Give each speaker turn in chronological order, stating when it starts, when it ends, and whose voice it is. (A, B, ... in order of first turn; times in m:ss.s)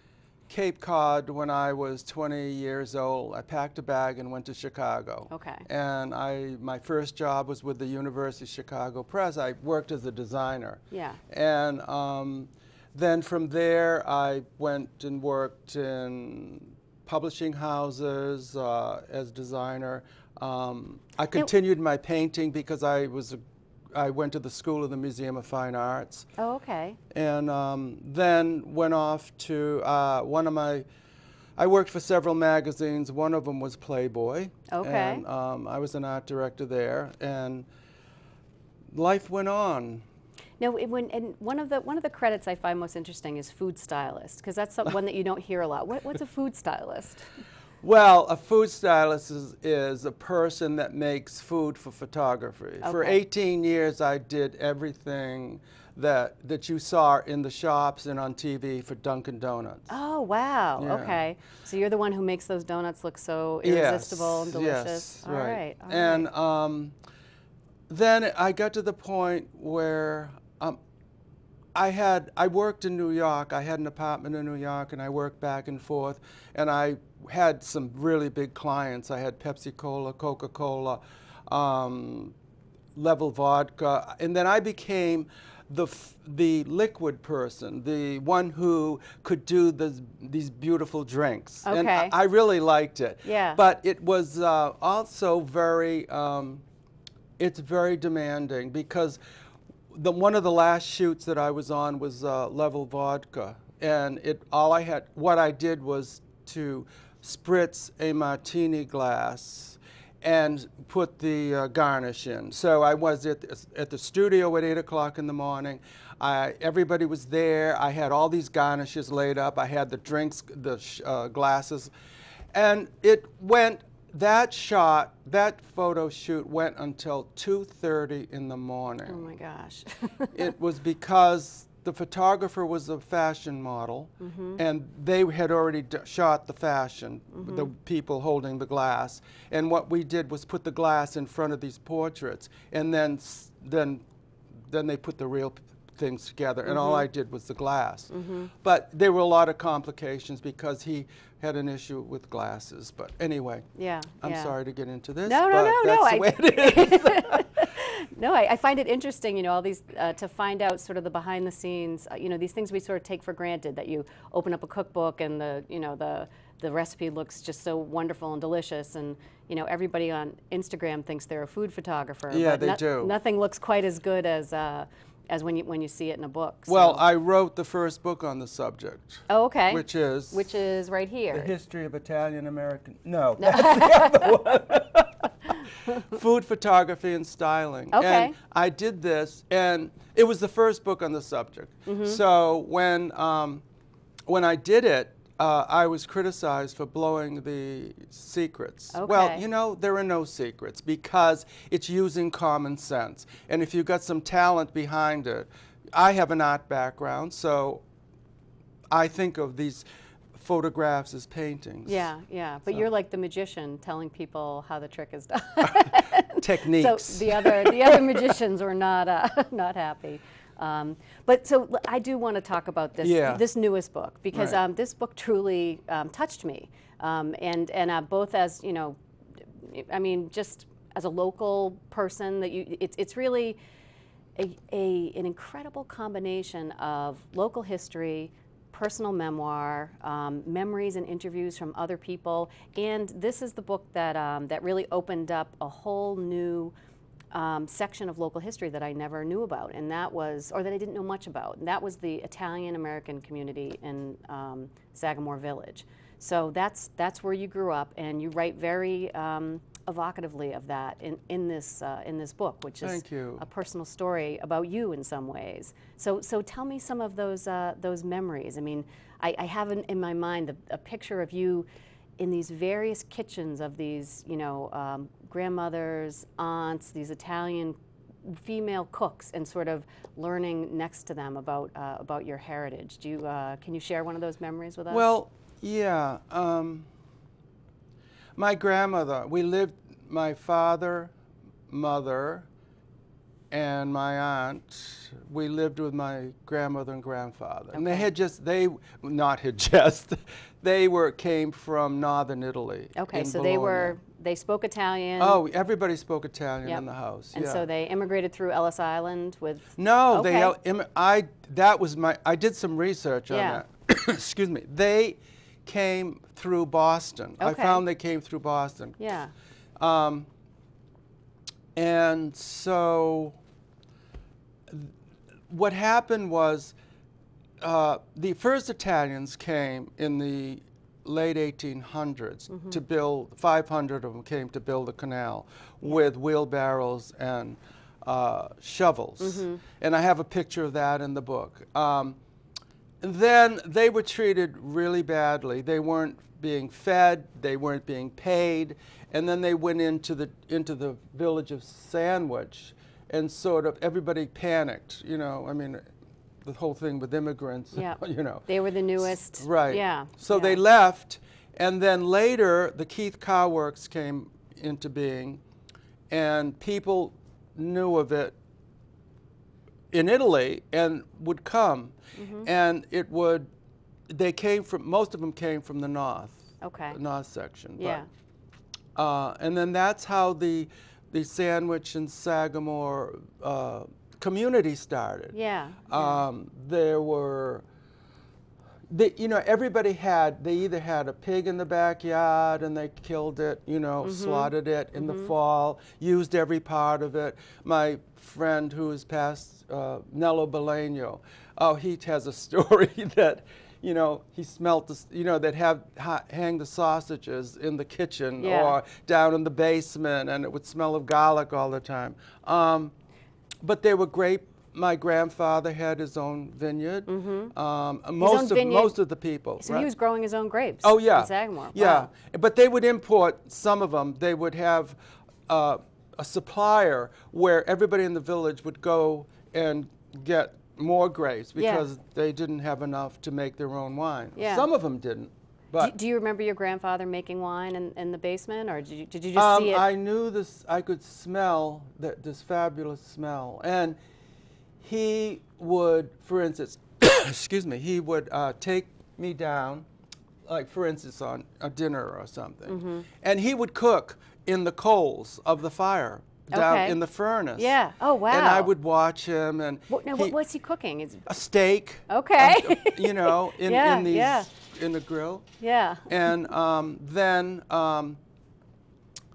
0:00.5-0:23.4 A
0:05.3-0:05.7 B
0:10.9-0:11.2 B
0:23.9-0:26.3 A
0:26.4-0:27.0 B
0:27.1-0:30.8 A
0:31.6-0:37.7 A
0:34.7-0:35.2 B
0:38.9-0:40.0 A
0:40.6-0:47.3 B
0:47.8-0:59.9 A
0:52.8-0:53.2 B
0:59.9-1:06.3 B
1:00.8-1:01.2 A
1:03.6-1:06.9 A
1:07.9-1:10.8 A
1:11.8-1:22.3 A
1:22.9-1:36.6 A
1:31.7-1:32.1 B
1:33.2-1:33.6 B
1:37.4-1:39.2 A
1:39.9-2:01.9 A
2:02.5-2:09.3 A
2:09.1-2:10.5 B
2:10.3-2:24.0 A
2:14.2-2:14.6 B
2:17.3-2:17.7 B
2:24.6-2:33.7 A
2:26.7-2:27.0 B
2:28.1-2:28.5 B
2:33.8-2:34.5 B
2:34.2-2:37.6 A
2:35.2-2:57.0 B
2:52.3-2:53.1 A
2:56.7-3:00.4 A
2:59.3-3:01.5 B
3:01.3-3:13.6 A
3:03.4-3:04.4 B
3:07.9-3:08.3 B
3:11.8-3:12.2 B
3:14.3-3:27.8 A
3:18.9-3:19.4 B
3:28.9-3:32.1 A
3:31.8-3:53.6 B
3:36.4-3:38.3 A
3:43.0-3:43.4 A
3:44.3-3:44.6 A
3:54.4-4:06.7 B
4:07.3-4:31.6 B
4:22.8-4:23.4 A
4:32.2-4:45.1 B
4:44.9-4:46.9 A
4:48.4-4:51.1 A
4:51.7-4:52.5 A
4:53.5-5:04.0 A
4:57.7-4:58.1 B
5:03.0-5:05.4 B
5:05.2-5:07.6 A
5:07.3-5:10.5 B
5:09.8-5:19.0 A
5:13.3-5:13.6 B
5:17.4-5:17.8 B
5:19.0-5:19.3 B
5:19.8-5:20.3 A
5:21.8-5:23.4 A
5:24.7-5:24.9 A
5:25.5-5:26.8 A
5:27.6-5:42.2 A
5:32.5-5:32.8 B
5:39.2-5:39.6 B
5:43.0-5:55.8 A
5:56.4-5:58.5 A
5:57.7-6:00.6 B
5:59.4-6:05.4 A
6:06.1-6:08.4 A
6:09.9-6:13.5 A
6:12.2-6:12.5 B
6:14.1-6:18.0 A
6:16.6-6:17.0 B
6:17.8-6:18.1 B
6:19.0-6:25.4 A
6:25.3-6:26.2 B
6:25.9-6:27.6 A
6:28.9-6:52.9 A
6:34.0-6:35.3 B
6:48.4-6:48.8 B
6:53.6-6:59.9 A
6:57.1-6:57.5 B
6:58.2-6:59.0 B
6:59.6-7:02.1 B
7:00.8-7:15.9 A
7:11.6-7:11.9 B
7:14.4-7:14.7 B
7:15.8-7:19.8 B
7:19.4-7:24.0 A
7:24.8-7:29.9 A
7:30.4-7:37.7 A
7:32.7-7:33.0 B
7:36.5-7:37.0 B
7:37.6-7:38.7 B
7:38.3-7:40.4 A
7:39.9-7:41.3 B
7:41.2-7:45.4 A
7:42.1-7:44.5 B
7:45.6-7:46.3 B
7:46.1-7:48.2 A